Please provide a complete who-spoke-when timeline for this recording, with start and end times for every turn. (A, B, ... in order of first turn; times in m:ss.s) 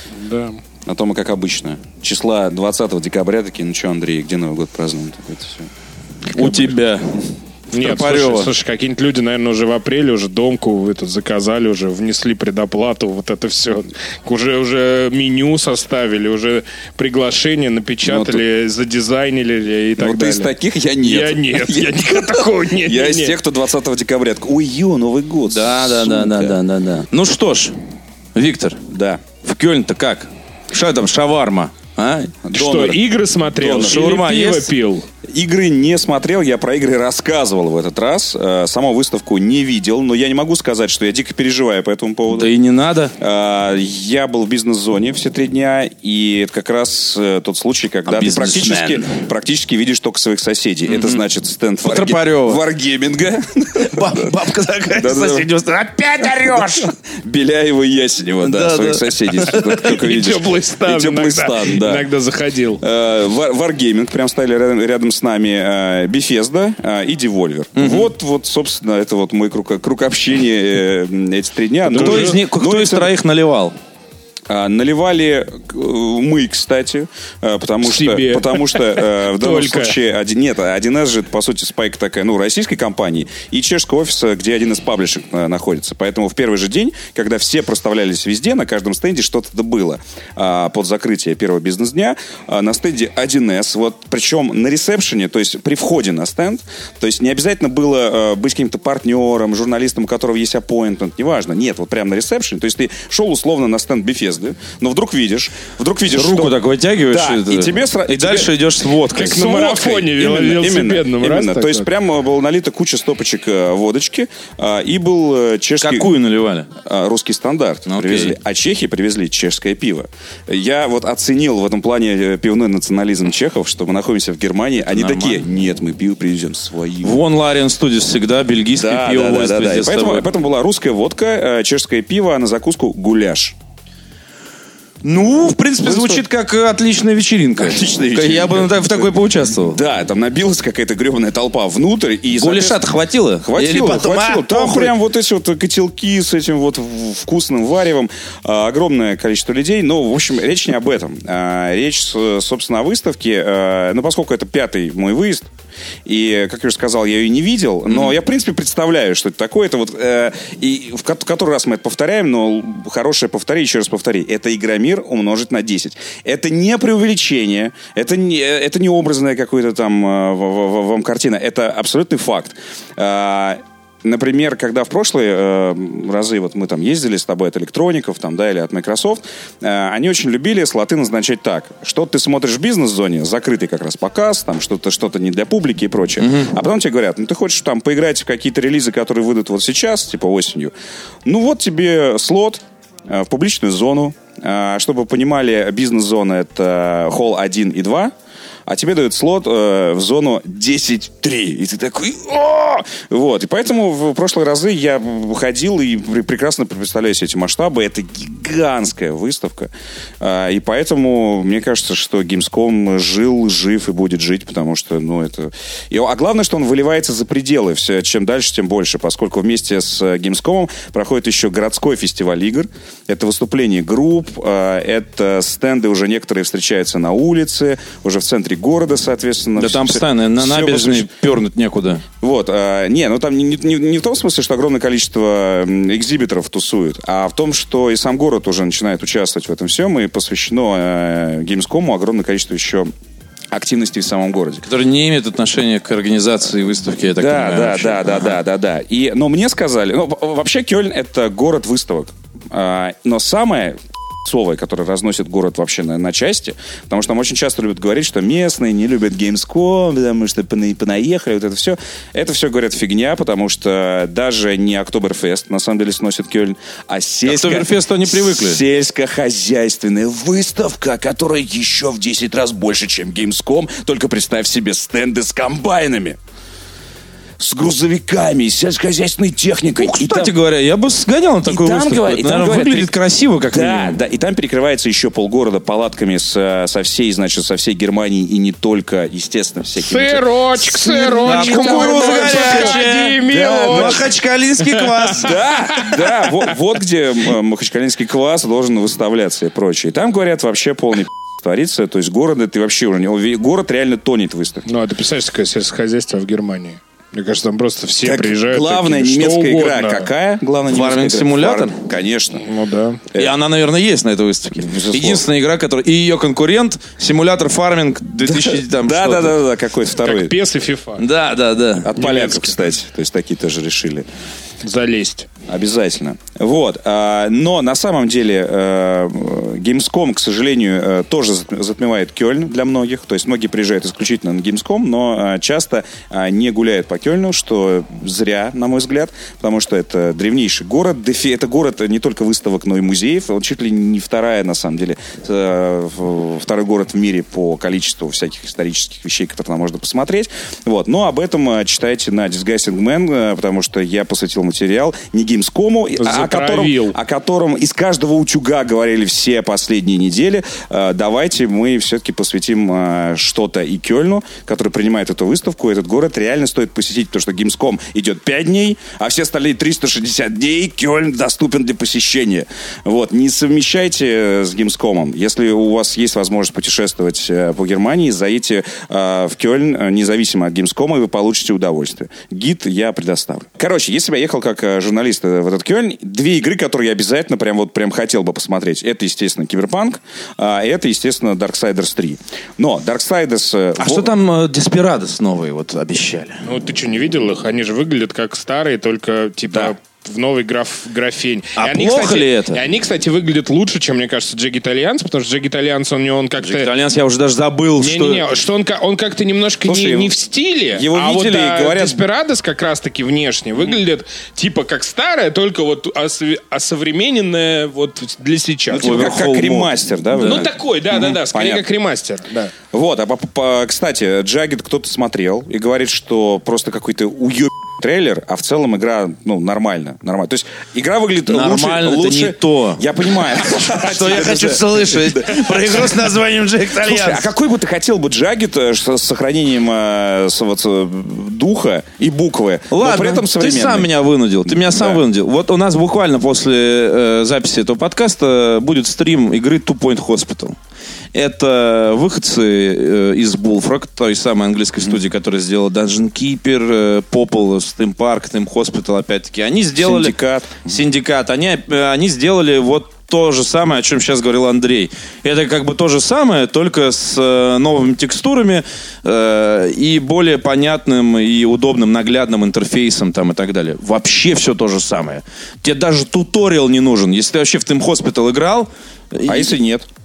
0:00.1-0:00.6 A
0:00.9-0:05.7 B
0:06.3-0:08.5 C
0:07.7-0:23.4 A
0:18.1-0:18.4 B
0:20.0-0:26.6 B
0:25.5-0:27.8 C
0:28.4-0:28.8 C
0:28.9-0:29.2 B
0:29.4-0:32.4 C
0:32.4-0:33.0 B
0:32.5-0:35.1 A
0:33.6-0:34.2 B
0:33.8-0:34.7 C
0:35.2-0:42.5 B
0:42.3-0:43.1 C
0:43.2-0:54.3 B
0:48.1-0:49.1 C
0:51.8-0:52.6 C
0:53.8-0:56.9 C
0:54.9-0:55.5 B
0:56.2-1:02.1 B
0:58.4-0:59.9 C
0:59.7-1:02.8 A
1:02.8-1:13.1 B
1:07.8-1:08.1 C
1:11.9-1:12.4 A
1:11.9-1:13.8 C
1:14.5-1:46.6 B
1:17.8-1:20.0 A
1:46.1-1:49.7 C
1:47.1-1:48.5 B
1:49.1-1:51.9 A
1:49.3-1:56.1 B
1:55.8-1:56.7 C
1:56.8-2:07.2 B
1:57.9-1:58.4 C
2:04.9-2:05.4 C
2:07.0-2:10.3 C
2:08.8-2:13.6 B
2:15.0-2:19.8 C
2:15.8-2:16.2 B
2:17.6-2:22.9 B
2:22.4-2:24.9 C
2:23.4-2:35.5 B
2:36.1-3:10.7 B
3:11.3-3:18.1 B
3:18.7-3:51.1 B
3:49.6-3:52.0 C
3:52.2-4:02.9 B
4:03.5-4:04.6 B
4:04.6-4:08.3 C
4:07.2-4:36.2 B
4:27.3-4:28.6 C
4:37.4-4:40.3 B
4:39.8-4:44.0 C
4:41.5-4:42.9 B
4:43.5-4:54.1 B
4:49.8-4:54.1 A
4:51.2-4:55.4 C
4:54.6-4:56.3 A
4:55.2-5:04.6 B
5:04.7-5:10.1 A
5:08.0-5:12.4 B
5:10.7-5:11.8 C
5:12.4-5:13.0 A
5:13.2-5:19.4 C
5:14.6-5:15.2 B
5:18.2-5:20.3 B
5:20.0-5:21.0 A
5:21.0-5:21.9 C
5:21.8-5:24.0 B
5:22.0-5:22.6 A
5:24.6-5:25.3 A
5:25.5-6:34.1 B
5:56.0-5:57.0 A
6:33.8-6:36.4 C
6:36.4-6:46.7 A
6:41.6-6:42.6 C
6:46.4-6:48.2 C
6:47.8-6:59.1 A
6:49.6-6:50.1 B
6:50.8-6:52.0 B
6:58.7-7:01.6 B
6:58.8-7:00.5 C
7:00.2-7:02.5 A
7:02.7-7:16.1 B
7:11.3-7:12.8 C
7:13.4-7:17.3 C
7:16.8-7:23.9 B
7:22.7-7:30.6 C
7:24.4-7:25.0 B
7:31.1-7:59.5 C
7:39.8-7:40.8 B
7:59.3-7:59.9 B